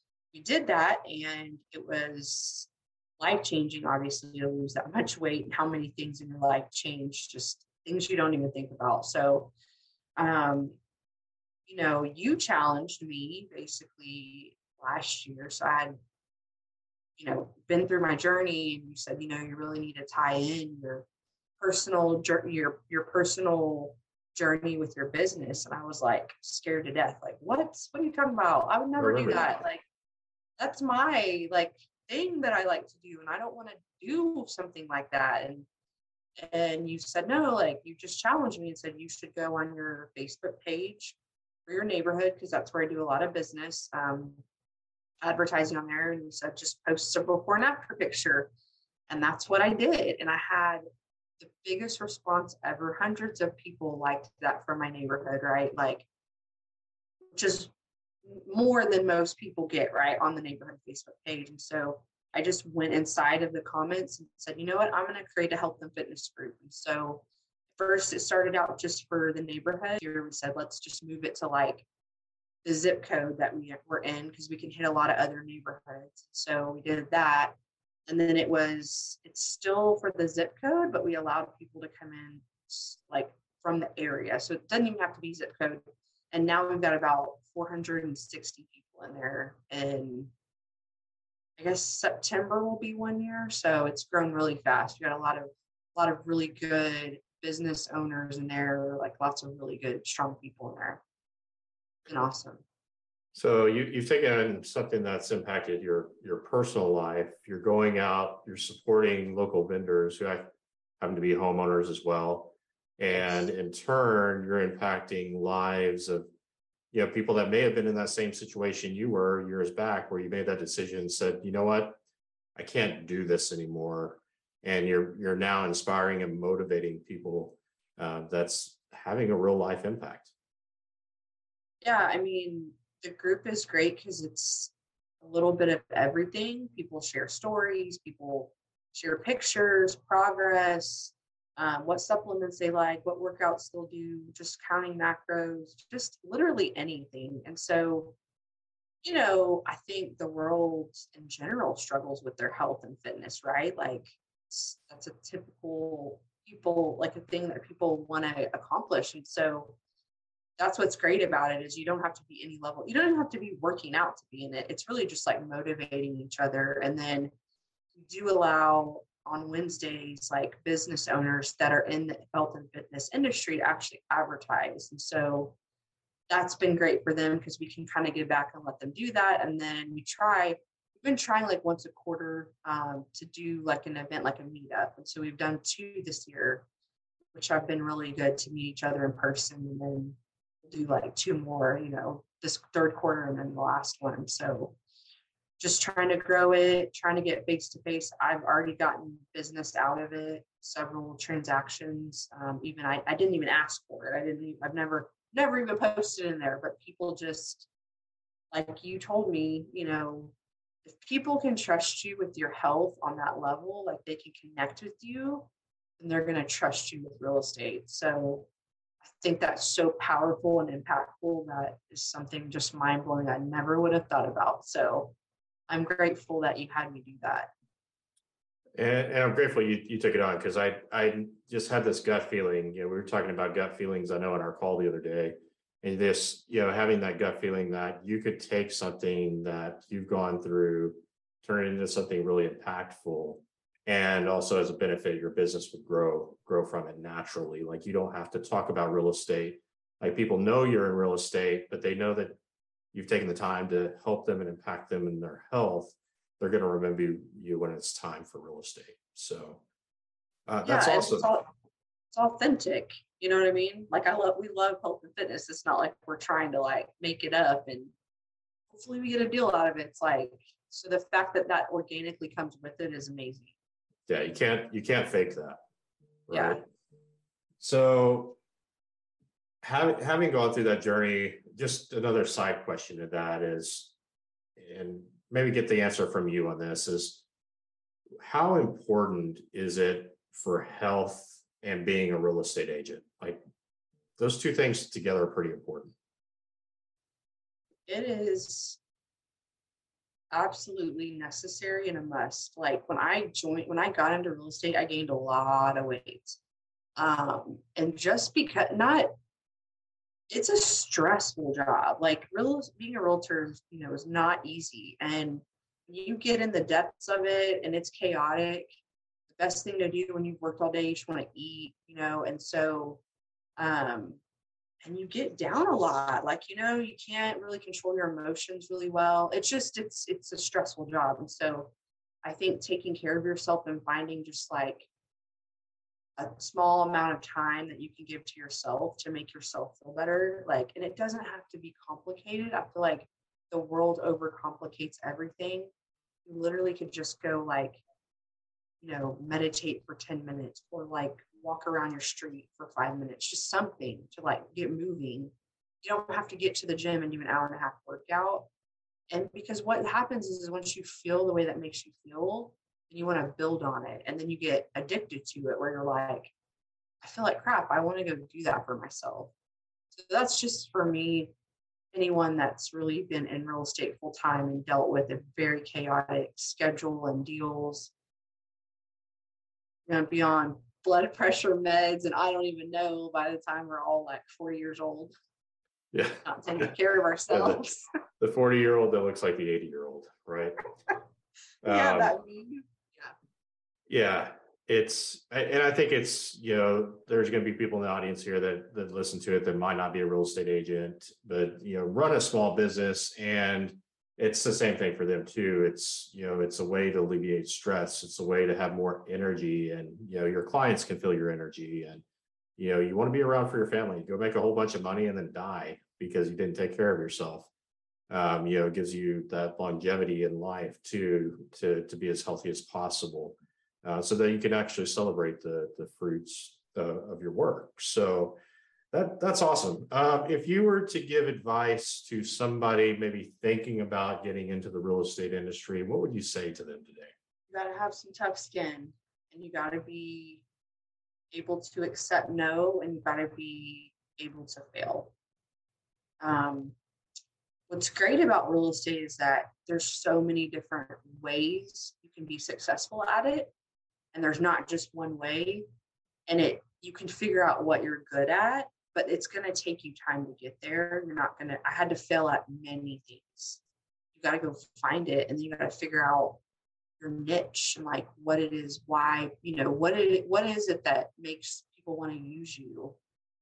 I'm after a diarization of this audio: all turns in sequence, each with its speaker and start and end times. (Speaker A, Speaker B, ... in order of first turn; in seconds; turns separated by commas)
Speaker A: 0.3-9.5, Speaker A: 10.2-10.8, Speaker A: 11.7-15.9, Speaker A: 17.2-21.1, Speaker A: 21.6-29.8, Speaker B: 29.0-29.6, Speaker A: 30.6-35.7, Speaker A: 36.4-44.4, Speaker A: 45.2-48.5, Speaker A: 49.1-50.8, Speaker A: 51.4-56.1, Speaker A: 57.3-57.7, Speaker A: 58.2-71.9, Speaker A: 72.6-90.3, Speaker A: 91.6-101.0, Speaker A: 102.0-102.6, Speaker B: 103.3-110.5, Speaker B: 111.0-116.3, Speaker A: 113.1-113.5, Speaker B: 116.9-122.0, Speaker B: 122.5-130.3, Speaker A: 131.8-148.2, Speaker A: 149.0-159.8, Speaker A: 160.6-167.3, Speaker A: 167.9-175.6, Speaker A: 176.3-186.7, Speaker A: 187.3-194.8, Speaker A: 195.6-207.7, Speaker A: 208.5-218.5, Speaker A: 219.0-225.2, Speaker A: 225.7-227.5, Speaker B: 228.8-252.4, Speaker B: 252.9-259.6, Speaker B: 260.5-261.3, Speaker A: 260.6-261.5, Speaker A: 262.1-267.9, Speaker A: 268.7-273.6, Speaker B: 274.1-275.6, Speaker B: 276.3-276.6, Speaker A: 276.3-276.6, Speaker B: 277.6-278.4, Speaker B: 279.6-283.9, Speaker B: 284.6-287.2, Speaker B: 288.2-293.4, Speaker B: 294.2-295.9, Speaker A: 297.9-298.8, Speaker A: 300.3-306.4, Speaker A: 306.9-309.1, Speaker A: 310.3-318.7, Speaker A: 319.3-323.0, Speaker A: 323.6-324.2, Speaker A: 324.8-331.7, Speaker A: 332.2-334.9, Speaker A: 336.2-345.7, Speaker A: 346.2-347.8, Speaker A: 348.8-358.5, Speaker A: 359.1-366.3, Speaker A: 367.0-369.3, Speaker A: 369.9-371.3, Speaker A: 371.9-377.9, Speaker A: 379.9-385.1, Speaker B: 385.9-386.7, Speaker A: 386.2-387.8, Speaker B: 387.3-387.6, Speaker B: 388.2-390.6, Speaker A: 391.6-393.1, Speaker B: 391.6-392.1, Speaker B: 393.9-412.0, Speaker B: 412.6-417.5, Speaker B: 418.1-428.4, Speaker B: 428.9-437.1, Speaker A: 437.5-440.4, Speaker A: 441.3-445.1, Speaker A: 446.2-446.8, Speaker A: 447.7-453.5, Speaker A: 454.1-455.6, Speaker A: 456.3-463.6, Speaker A: 464.1-466.4, Speaker A: 467.0-473.0